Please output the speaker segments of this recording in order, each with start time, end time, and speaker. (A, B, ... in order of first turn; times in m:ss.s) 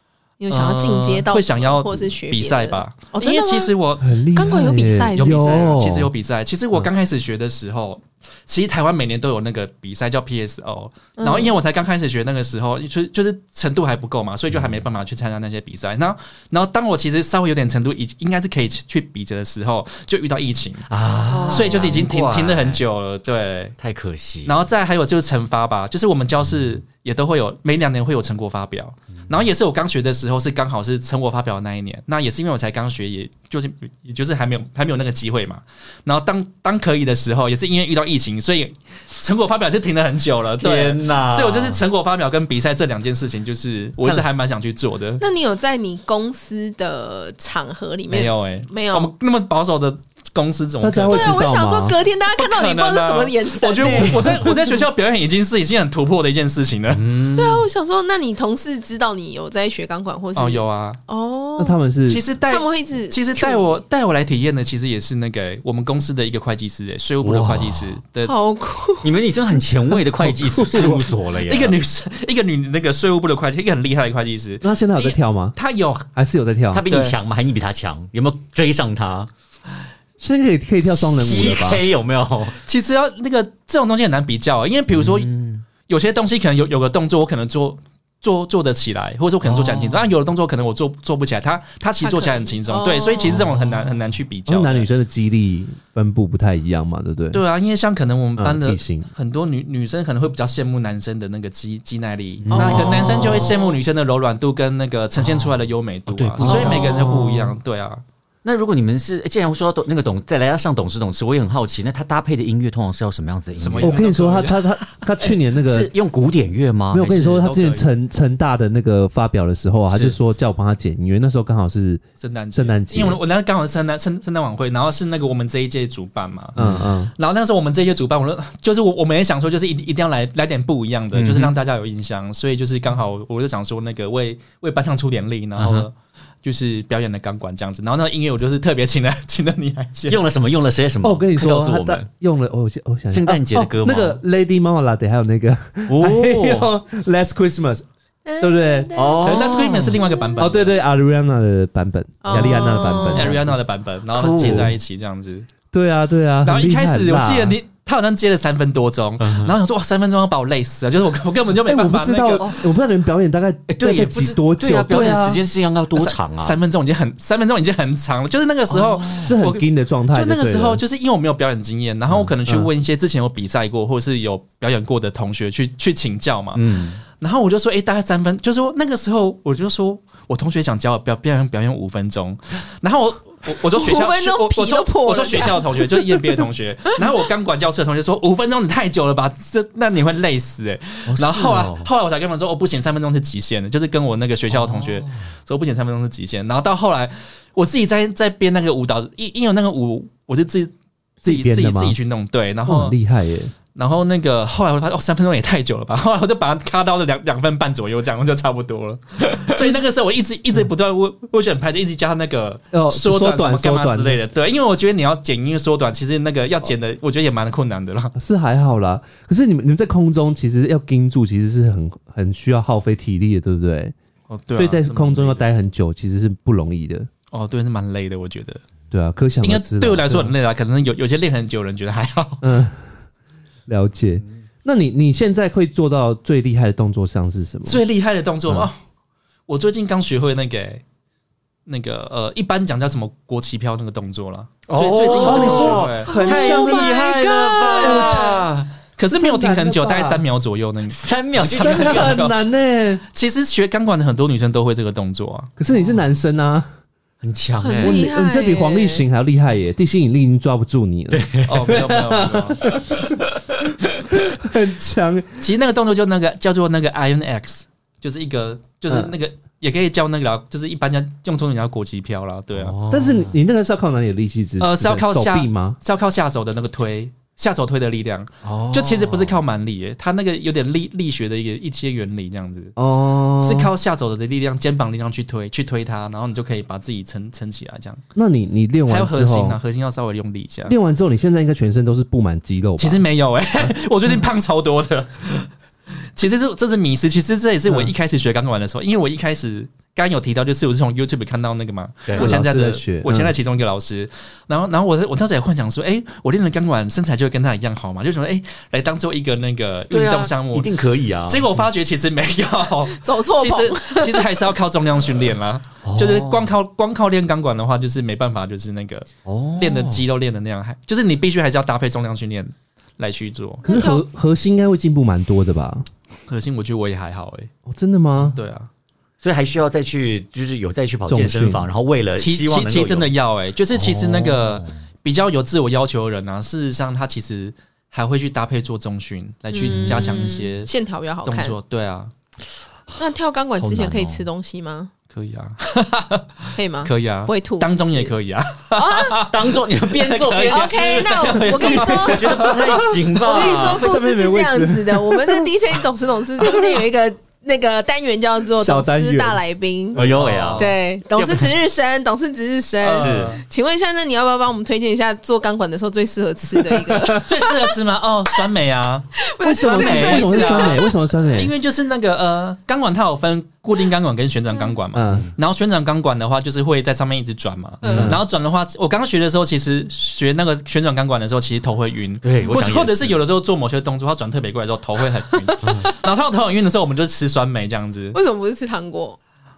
0:00.4-0:03.7 A
0:00.5-0:04.2 B
0:04.0-0:06.1 C
0:04.3-0:05.7 A
0:05.0-0:20.9 B
0:11.2-0:11.5 A
0:14.5-0:14.8 D
0:20.9-0:22.8 D
0:21.3-0:22.0 A
0:21.5-0:23.8 B
0:23.8-0:24.6 D
0:24.5-0:45.2 B
0:40.6-0:41.8 D
0:45.2-0:49.1 A
0:48.1-0:51.4 B
0:50.8-0:52.0 C
0:51.1-0:54.8 A
0:52.3-0:57.0 B
0:56.9-0:57.7 D
0:57.4-1:01.8 A
1:00.4-1:01.0 B
1:01.6-1:02.2 C
1:02.1-1:08.3 B
1:02.5-1:03.8 A
1:07.2-1:08.0 D
1:08.2-1:09.2 A
1:09.0-1:11.8 D
1:10.5-1:16.1 B
1:14.6-1:15.6 C
1:16.2-1:16.9 C
1:16.7-1:19.3 D
1:16.9-1:17.2 B
1:20.2-1:21.8 C
1:20.8-1:22.6 D
1:22.7-1:25.3 B
1:24.9-1:25.6 D
1:25.9-1:34.9 B
1:29.4-1:30.1 D
1:32.0-1:33.4 A
1:33.2-1:34.0 D
1:34.5-1:37.4 C
1:37.3-1:48.0 B
1:38.4-1:39.1 C
1:42.4-1:43.6 D
1:42.5-1:43.8 A
1:45.2-1:47.6 D
1:46.4-1:47.1 A
1:48.4-1:54.1 D
1:53.5-1:55.1 B
1:53.8-1:55.9 C
1:55.7-1:57.5 D
1:56.9-2:02.0 C
1:57.2-1:57.9 B
2:02.2-2:06.6 B
2:02.6-2:03.2 C
2:06.6-2:07.1 C
2:06.6-2:06.8 D
2:07.2-2:20.3 B
2:11.2-2:11.6 D
2:15.6-2:15.9 D
2:20.1-2:22.1 D
2:21.0-2:27.9 C
2:23.1-2:24.2 D
2:25.9-2:26.7 D
2:28.2-2:30.6 A
2:28.4-2:28.9 C
2:29.0-2:30.0 D
2:29.2-2:30.8 B
2:30.4-2:33.6 C
2:32.2-2:33.3 A
2:33.1-2:35.5 B
2:34.1-2:34.8 D
2:34.4-2:34.7 C
2:35.7-2:37.6 C
2:36.4-2:42.5 B
2:39.2-2:39.6 D
2:41.7-2:45.4 C
2:43.7-2:46.6 D
2:44.9-2:45.2 B
2:46.0-2:56.6 B
2:48.7-2:49.4 D
2:49.2-2:50.8 C
2:52.1-2:52.6 D
2:56.6-2:57.0 D
2:57.2-3:23.0 B
3:03.7-3:05.7 A
3:11.1-3:11.9 D
3:14.5-3:15.2 D
3:21.2-3:22.0 C
3:22.7-3:23.5 C
3:23.8-3:38.1 B
3:32.7-3:34.2 C
3:38.2-3:43.9 C
3:44.3-3:45.5 B
3:44.5-3:47.1 C
3:47.3-3:48.6 B
3:48.9-3:50.3 C
3:49.4-3:52.5 B
3:52.4-3:52.9 C
3:53.7-3:57.8 C
3:57.7-3:58.8 B
3:59.5-4:00.8 B
4:01.7-4:06.5 B
4:04.7-4:08.7 D
4:05.2-4:07.2 C
4:06.1-4:08.4 A
4:07.8-4:08.5 C
4:09.0-4:12.4 B
4:09.1-4:10.2 C
4:10.9-4:12.3 D
4:11.5-4:13.0 C
4:13.1-4:15.5 B
4:15.6-4:16.7 C
4:15.7-4:16.0 D
4:17.2-4:18.0 D
4:17.6-4:19.0 A
4:17.8-4:23.2 C
4:21.1-4:23.2 D
4:21.5-4:22.6 B
4:24.1-4:25.4 C
4:25.4-4:32.8 B
4:28.9-4:29.1 C
4:32.5-4:33.4 D
4:32.9-4:35.8 C
4:34.6-4:42.8 B
4:38.4-4:39.4 D
4:42.8-4:43.7 C
4:43.4-4:48.0 B
4:48.2-4:49.6 C
4:48.9-4:50.8 B
4:50.7-4:53.0 C
4:52.8-4:55.5 B
4:56.2-5:23.6 B
5:02.1-5:02.3 D
5:02.2-5:03.4 C
5:09.9-5:11.5 D
5:12.9-5:14.3 A
5:15.8-5:16.5 D
5:19.2-5:20.0 D
5:23.6-5:24.0 A
5:23.7-5:25.9 C
5:26.3-5:27.5 B
5:27.7-5:28.4 C
5:28.2-5:28.7 B
5:29.2-5:33.1 D
5:31.1-5:31.7 C
5:32.2-5:40.7 B
5:33.7-5:34.8 D
5:39.5-5:41.6 A
5:39.6-5:40.3 D
5:41.2-5:42.1 B
5:43.0-5:44.9 A
5:43.6-5:44.3 D
5:45.1-5:53.4 B
5:46.6-5:48.1 A
5:48.8-5:49.2 A
5:49.3-5:53.9 D
5:50.5-6:00.0 A
5:53.4-5:55.5 C
5:58.6-5:59.4 C
6:00.0-6:00.8 B
6:00.0-6:01.5 D
6:00.6-6:07.7 A
6:02.8-6:03.4 B
6:03.0-6:03.4 D
6:07.2-6:09.1 B
6:09.2-6:10.9 A
6:09.4-6:11.5 C
6:09.6-6:10.8 B
6:09.8-6:10.1 D
6:11.3-6:28.2 B
6:14.9-6:15.3 C
6:17.8-6:18.2 D
6:17.8-6:18.2 C
6:22.2-6:23.2 D
6:25.6-6:25.9 D
6:28.1-6:29.2 A